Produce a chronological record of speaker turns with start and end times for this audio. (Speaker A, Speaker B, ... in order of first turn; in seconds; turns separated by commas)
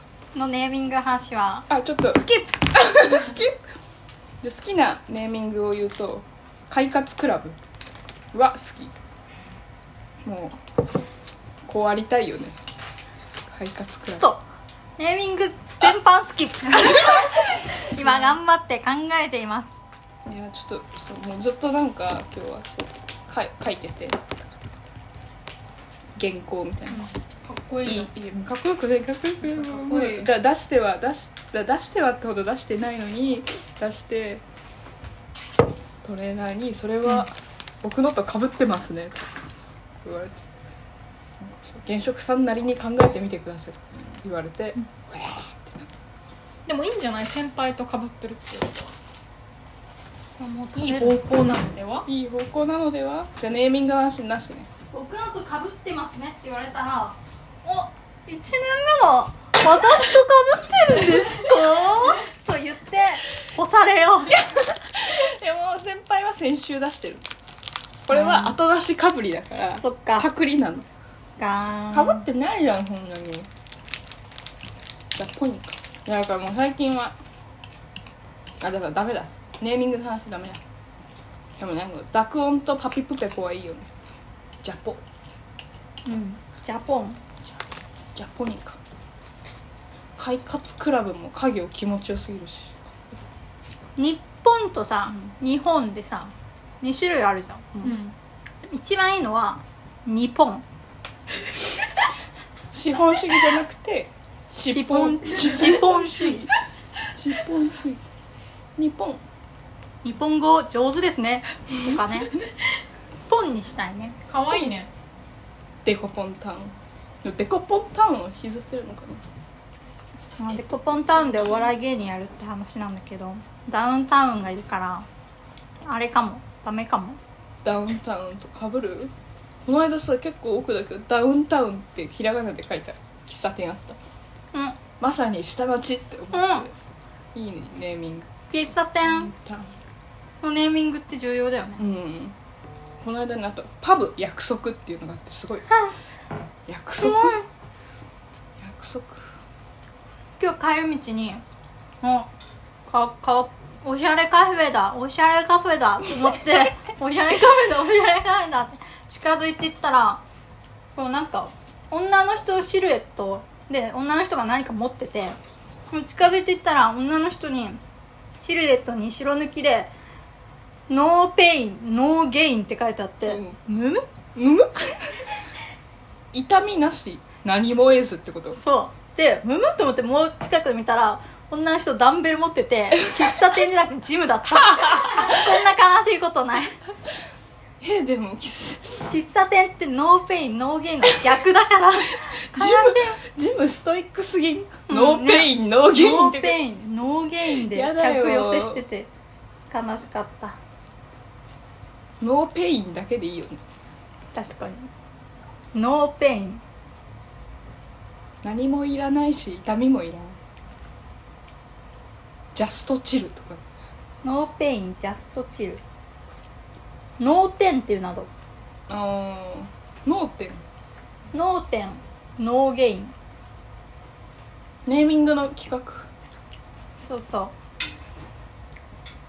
Speaker A: 0.3-2.7, Speaker B: 1.7-3.5, Speaker B: 4.4-7.6, Speaker B: 8.3-8.9, Speaker B: 10.2-10.6, Speaker B: 11.6-12.6, Speaker B: 13.5-14.2, Speaker A: 14.2-14.4, Speaker A: 15.0-19.7, Speaker B: 18.0-18.4, Speaker B: 20.2-24.3, Speaker B: 26.1-27.1, Speaker C: 27.4-28.1, Speaker B: 27.8-34.4, Speaker C: 29.6-30.3, Speaker B: 36.0-39.2, Speaker B: 40.0-40.4, Speaker B: 41.4-45.9, Speaker C: 46.6-48.9, Speaker A: 50.4-51.2, Speaker C: 50.8-52.0, Speaker B: 52.0-54.7, Speaker A: 54.9-64.4, Speaker B: 64.4-67.2, Speaker B: 68.1-70.9, Speaker A: 68.1-68.6, Speaker A: 69.8-70.3, Speaker A: 71.4-72.2, Speaker B: 71.9-73.5, Speaker B: 75.2-77.2, Speaker B: 78.6-80.6, Speaker B: 81.6-83.9, Speaker B: 84.6-85.0, Speaker A: 86.0-87.2, Speaker B: 88.1-88.8, Speaker B: 90.2-93.2, Speaker A: 94.0-97.9, Speaker C: 97.8-98.1, Speaker A: 98.7-100.6, Speaker B: 102.7-106.5, Speaker A: 104.5-106.5, Speaker B: 107.1-108.0, Speaker B: 108.8-109.2, Speaker A: 110.0-112.4, Speaker A: 113.3-114.2, Speaker C: 114.2-114.9, Speaker B: 115.8-119.2, Speaker A: 120.4-125.1, Speaker A: 125.8-127.2, Speaker B: 127.6-129.1, Speaker B: 129.7-134.0, Speaker A: 134.5-134.8, Speaker B: 135.0-136.7, Speaker A: 136.3-136.7, Speaker B: 137.3-138.3, Speaker A: 138.5-139.3, Speaker B: 139.0-139.7, Speaker A: 140.4-141.8, Speaker B: 141.8-142.3, Speaker B: 143.0-145.7, Speaker B: 146.7-147.4, Speaker A: 147.0-147.4, Speaker B: 148.6-149.3, Speaker A: 150.4-151.4, Speaker A: 152.0-152.3, Speaker A: 152.9-160.2, Speaker A: 160.9-165.4, Speaker A: 165.9-167.8, Speaker A: 168.4-169.9, Speaker A: 170.9-174.0, Speaker B: 173.2-173.6, Speaker B: 174.3-175.2, Speaker B: 176.3-178.6, Speaker A: 178.5-186.8, Speaker B: 187.8-189.1, Speaker A: 189.1-193.2, Speaker B: 192.4-196.6, Speaker A: 194.9-199.1, Speaker B: 197.4-198.8, Speaker A: 199.7-200.6, Speaker B: 202.2-203.6, Speaker A: 204.3-204.9, Speaker A: 205.7-206.6, Speaker B: 208.4-210.4, Speaker B: 212.5-213.6, Speaker A: 214.2-215.8, Speaker A: 217.2-218.3, Speaker B: 218.9-220.6, Speaker A: 221.3-223.1, Speaker B: 224.8-226.1, Speaker A: 227.0-227.5